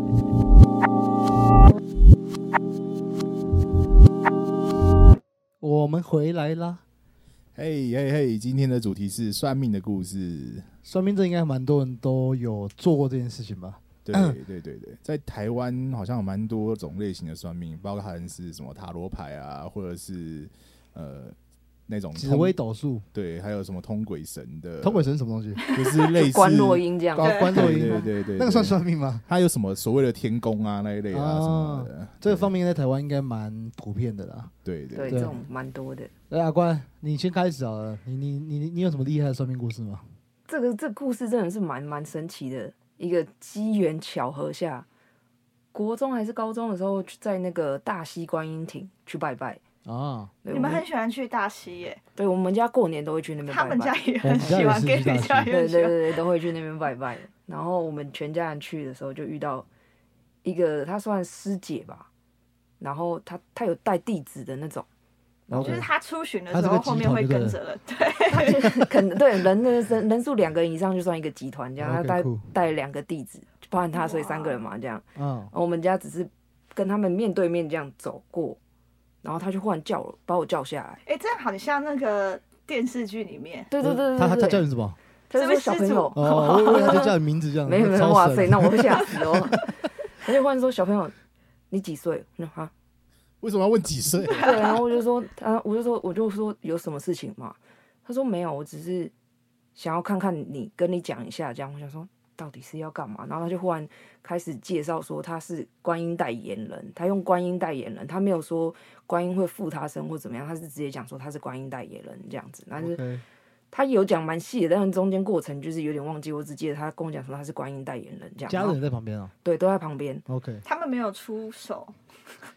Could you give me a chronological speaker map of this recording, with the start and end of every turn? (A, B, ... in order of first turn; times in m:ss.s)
0:05.6-0:06.8 A
0:07.5-0:10.7 B
0:10.8-0:14.4 A
0:14.0-0:21.4 B
0:21.9-0:22.6 B
0:22.1-0:23.1 A
0:23.1-0:25.1 B
0:24.8-0:25.7 A
0:25.6-0:26.8 B
0:26.2-0:27.4 C
0:27.1-0:29.2 A
0:27.2-0:27.7 D
0:27.4-0:32.5 B
0:31.1-0:34.5 A
0:34.6-0:35.3 B
0:34.9-0:36.1 C
0:35.1-0:35.3 A
0:36.3-0:40.0 A
0:40.5-0:44.9 C
0:45.7-0:49.6 C
0:49.8-0:50.3 A
0:50.4-0:50.8 C
0:50.5-0:52.0 D
0:52.2-0:54.8 C
0:53.4-0:56.2 D
0:54.2-0:55.5 A
0:55.5-0:59.7 C
1:00.4-1:02.1 C
1:02.8-1:04.9 C
1:05.5-1:05.8 C
1:05.5-1:05.9 A
1:05.6-1:08.6 D
1:06.5-1:07.6 A
1:08.3-1:18.6 C
1:11.8-1:12.5 A
1:13.9-1:14.6 D
1:15.2-1:15.5 A
1:19.2-1:21.0 C
1:21.0-1:23.7 D
1:23.7-1:24.7 C
1:23.8-1:25.0 A
1:25.3-1:27.1 C
1:25.3-1:27.1 D
1:26.1-1:29.6 A
1:27.7-1:31.1 C
1:31.7-1:32.7 C
1:33.4-1:34.8 B
1:34.3-1:39.1 C
1:39.7-1:53.0 C
1:52.8-1:53.2 A
1:53.7-1:58.8 C
1:58.4-1:59.3 A
1:59.4-2:00.2 C
2:00.3-2:00.6 A
2:00.6-2:02.0 D